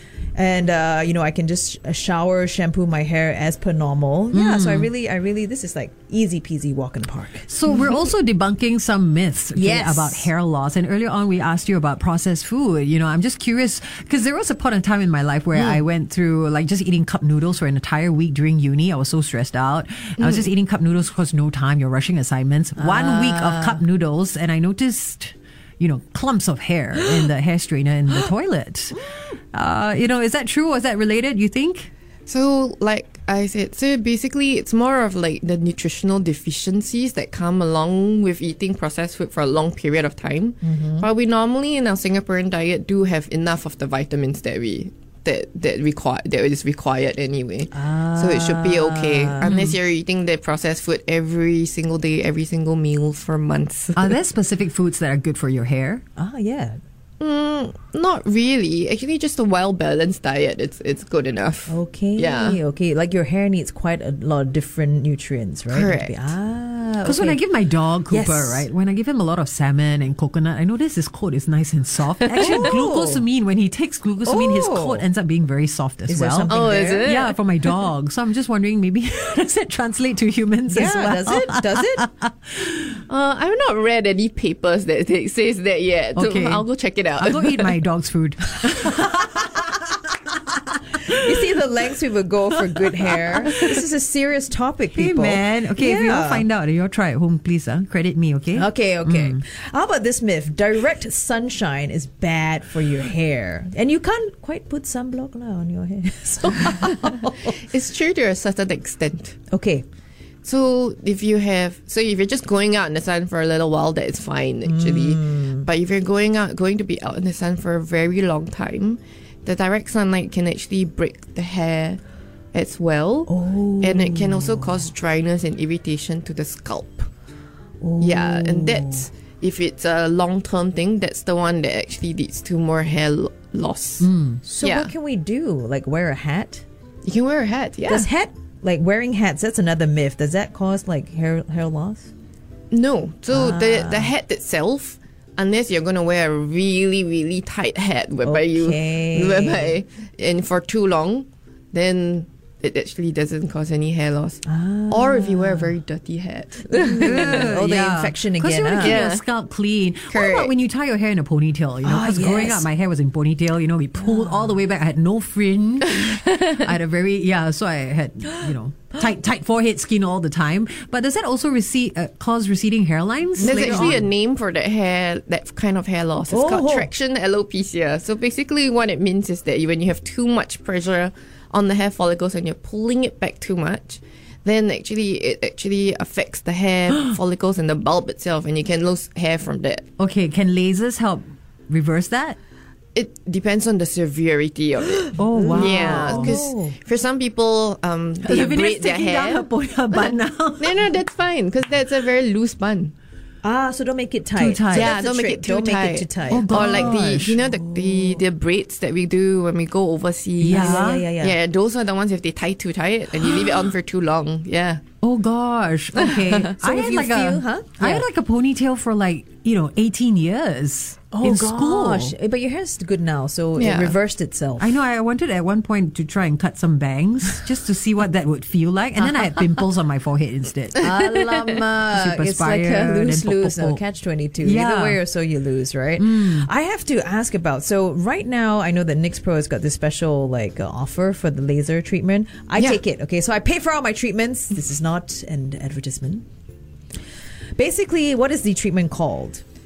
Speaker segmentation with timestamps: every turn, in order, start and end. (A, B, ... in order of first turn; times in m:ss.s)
0:00.3-0:08.1 A
0:04.3-0:04.9 B
0:07.5-0:29.0 B
0:09.5-0:10.3 A
0:15.5-0:15.8 A
0:20.2-0:20.5 C
0:22.8-0:23.8 A
0:29.5-0:31.9 B
0:32.3-0:54.2 C
0:40.6-0:41.1 A
0:47.7-0:49.6 A
0:49.4-0:49.7 B
0:53.9-0:56.0 B
0:56.2-0:56.8 A
0:57.2-1:02.6 C
1:01.7-1:07.4 A
1:05.7-1:06.3 C
1:07.0-1:22.3 B
1:08.1-1:08.7 A
1:12.4-1:13.2 A
1:14.2-1:15.0 A
1:16.1-1:17.1 A
1:16.5-1:17.4 C
1:20.7-1:22.1 A
1:23.1-1:27.8 C
1:26.1-1:26.6 B
1:27.2-1:29.8 B
1:30.7-1:31.2 B
1:31.0-1:36.5 A
1:32.8-1:33.1 B
1:34.9-1:39.4 B
1:38.5-1:47.5 A
1:47.5-1:49.4 C
1:49.5-1:49.8 A
1:50.4-2:02.0 C
1:54.6-1:55.7 A
2:02.5-2:07.1 C
2:03.3-2:04.9 A
2:07.8-2:09.1 A
2:08.0-2:14.1 C
2:14.0-2:14.4 B
2:14.4-2:16.6 A
2:14.6-2:14.9 C
2:17.0-2:18.1 C
2:17.8-2:22.1 A
2:22.7-2:37.5 C
2:23.3-2:24.2 A
2:28.2-2:29.8 A
2:34.4-2:35.8 A
2:36.7-2:39.0 A
2:37.0-2:54.0 B
2:38.8-2:39.2 C
2:40.1-2:40.5 C
2:41.8-2:42.7 A
2:44.0-2:44.6 A
2:53.4-2:54.1 A
2:53.4-3:09.8 C
2:56.3-2:56.9 A
3:10.0-3:12.4 B
3:12.9-3:19.5 C
3:15.1-3:16.3 B
3:15.3-3:16.8 A
3:18.2-3:20.8 B
3:20.6-3:22.9 C
3:23.4-3:28.2 A
3:24.3-3:24.9 B
3:24.7-3:34.8 C
3:26.3-3:27.4 B
3:30.4-3:31.0 B
3:30.5-3:31.4 A
3:35.0-3:42.1 B
3:36.0-3:36.4 C
3:36.5-3:38.0 A
3:41.1-3:44.7 A
3:43.6-3:44.0 C
3:44.6-3:50.9 B
3:50.7-4:06.2 A
3:51.9-3:53.8 B
3:54.4-3:55.0 B
3:56.0-3:56.5 B
4:07.6-4:09.4 A